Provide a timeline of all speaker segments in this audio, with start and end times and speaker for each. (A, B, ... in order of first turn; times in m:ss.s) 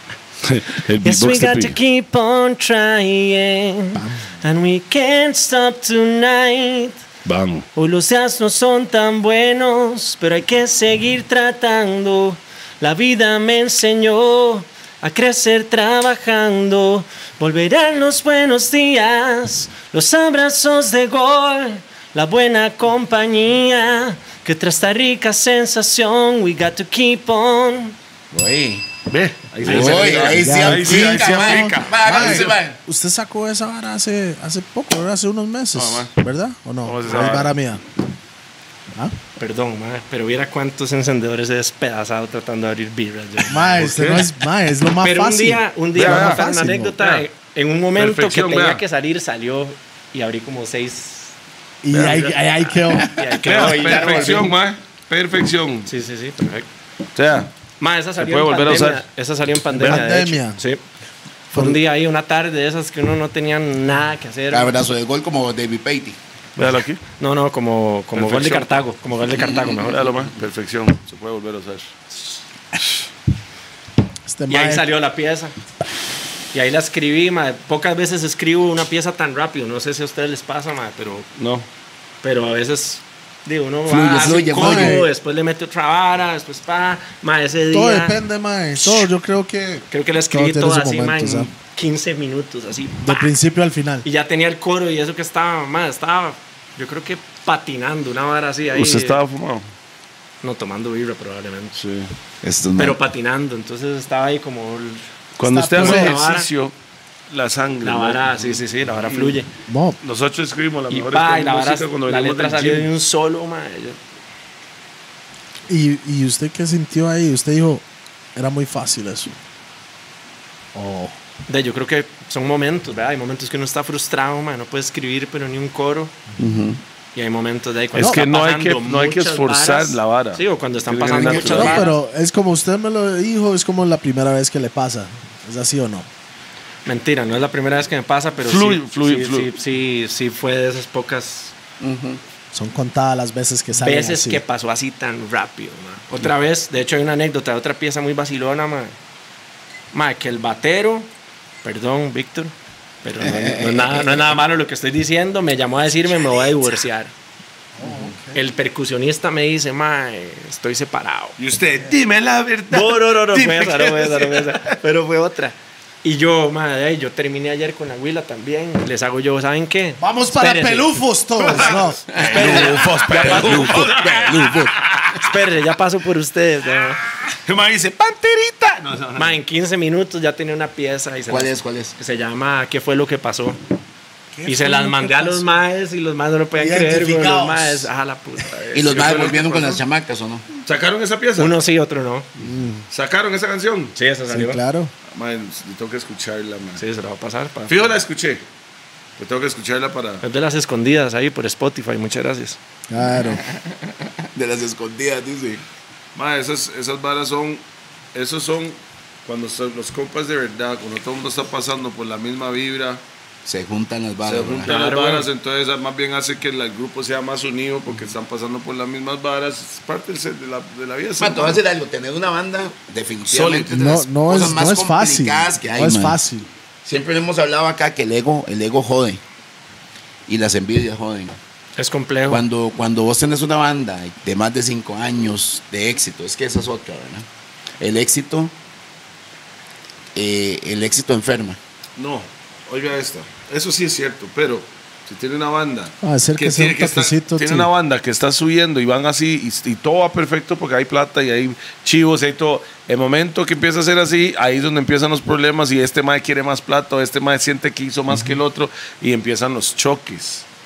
0:00.4-0:01.8 A
0:01.0-0:07.0 B
0:07.2-0:07.7 A
0:07.8-0:28.0 B
0:28.3-0:28.9 C
0:29.1-0:32.5 A
0:29.6-0:32.8 C
0:30.1-0:37.8 D
0:35.8-0:36.1 A
0:36.8-0:37.6 A
0:39.4-0:43.7 B
0:43.5-0:47.1 D
0:43.8-0:44.3 A
0:45.0-0:51.4 B
0:46.0-0:46.4 A
0:48.0-0:48.8 A
0:51.8-0:54.3 D
0:51.9-0:52.3 A
0:51.9-0:54.5 B
0:53.4-0:55.9 A
0:55.9-0:56.7 B
0:57.2-0:57.5 A
0:57.8-1:00.8 B
0:58.2-0:59.0 A
0:59.7-1:00.6 D
1:01.5-1:04.8 B
1:04.5-1:06.2 C
1:06.6-1:07.0 A
1:07.2-1:10.0 B
1:08.2-1:08.8 A
1:09.4-1:09.9 C
1:09.6-1:11.9 A
1:14.3-1:14.9 D
1:14.5-1:15.5 B
1:16.5-1:21.3 B
1:21.4-1:21.7 A
1:22.2-1:28.2 B
1:23.9-1:25.0 C
1:24.5-1:25.1 D
1:27.7-1:31.5 D
1:28.8-1:29.1 B
1:29.9-1:33.3 B
1:33.0-1:34.0 D
1:34.0-1:39.2 B
1:38.7-1:39.6 A
1:40.4-1:41.8 B
1:41.8-1:42.1 A
1:42.4-1:43.0 C
1:42.8-1:45.0 B
1:45.4-1:46.7 A
1:45.4-1:46.2 D
1:45.8-1:46.5 B
1:47.3-1:49.4 A
1:47.8-1:49.5 B
1:49.7-1:50.0 D
1:50.0-1:52.9 A
1:50.9-1:54.0 B
1:55.7-1:57.8 D
1:58.4-1:59.4 D
2:00.8-2:01.2 D
2:01.5-2:06.1 B
2:06.4-2:06.8 C
2:07.2-2:12.0 B
2:08.0-2:11.8 A
2:08.0-2:08.2 D
2:11.2-2:11.7 C
2:11.3-2:16.1 D
2:16.9-2:21.6 B
2:18.4-2:19.5 A
2:21.8-2:22.2 C
2:22.5-2:24.4 D
2:23.8-2:28.9 B
2:29.9-2:31.1 B
2:31.6-2:37.1 B
2:33.2-2:34.2 C
2:37.8-2:38.4 D
2:38.3-2:41.4 B
2:41.4-2:44.8 A
2:42.7-2:51.0 B
2:50.0-2:52.6 D
2:51.4-2:55.2 A
2:52.1-2:54.8 C
2:52.2-2:54.1 B
2:55.2-2:57.0 B
2:57.3-2:59.4 A
2:59.2-3:03.6 B
3:01.3-3:02.0 C
3:04.3-3:05.5 D
3:04.5-3:09.8 B
3:06.6-3:07.9 D
3:08.7-3:10.5 C
3:08.8-3:09.8 A
3:10.6-3:11.6 A
3:11.4-3:12.3 B
3:12.4-3:12.9 D
3:12.9-3:14.0 A
3:14.0-3:14.6 B
3:14.3-3:14.9 D
3:15.1-3:16.8 A
3:16.8-3:17.9 B
3:17.7-3:18.4 A
3:19.2-3:20.2 A
3:20.2-3:22.6 B
3:22.9-3:23.4 D
3:23.0-3:23.6 C
3:24.3-3:25.6 C
3:26.2-3:27.6 A
3:28.1-3:33.0 A
3:33.5-3:34.7 C
3:34.2-3:41.6 A
3:34.7-3:35.3 B
3:41.2-3:46.2 C
3:43.3-3:43.8 A
3:43.7-3:46.5 D
3:46.8-3:49.2 C
3:50.3-3:51.4 C
3:51.8-3:52.4 B
3:52.3-3:57.3 C
3:57.8-3:58.5 C
4:00.2-4:01.6 C
4:02.0-4:20.4 A
4:06.0-4:07.7 D